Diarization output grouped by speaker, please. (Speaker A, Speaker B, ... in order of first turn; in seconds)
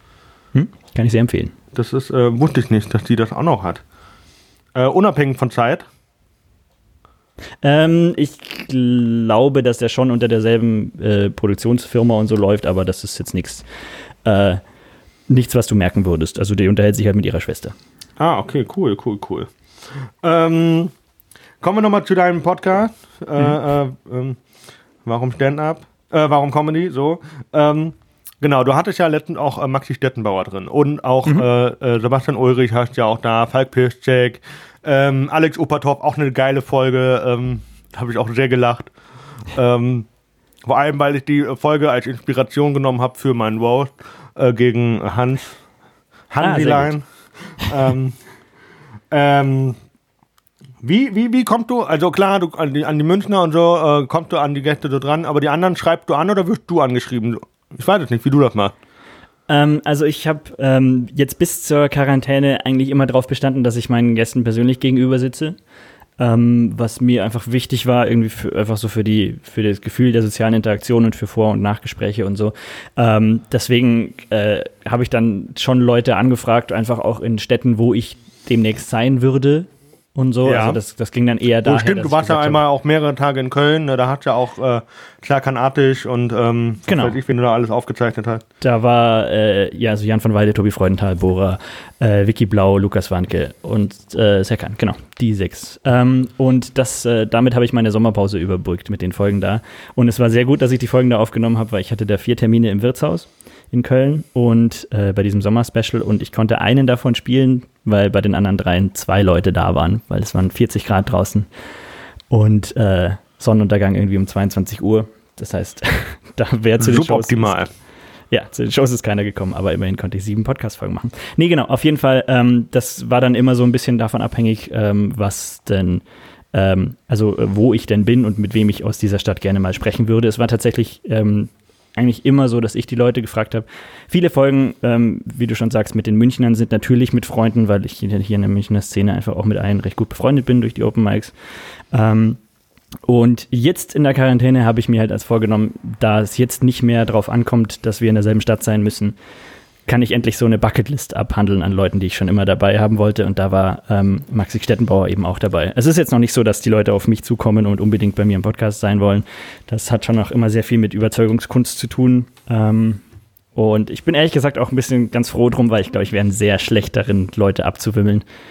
Speaker A: 0.5-1.5, 7.6-13.7, 14.2-14.6, 15.3-17.7, 46.4-46.9, 59.5-65.5, 66.2-82.6, 86.9-87.2, 88.6-111.5, 112.3-117.6, 118.3-141.3, 141.9-142.4, 143.0-149.2, 149.9-163.0, 163.5-168.2
Speaker B: 1.7-3.8, 4.7-5.9, 18.2-19.5, 20.2-20.9, 21.6-24.4, 25.0-38.9, 39.5-40.1, 40.6-45.6, 46.3-47.0, 47.6-48.2, 49.1-49.8, 50.8-58.7, 80.4-80.8, 81.6-88.4, 116.8-117.7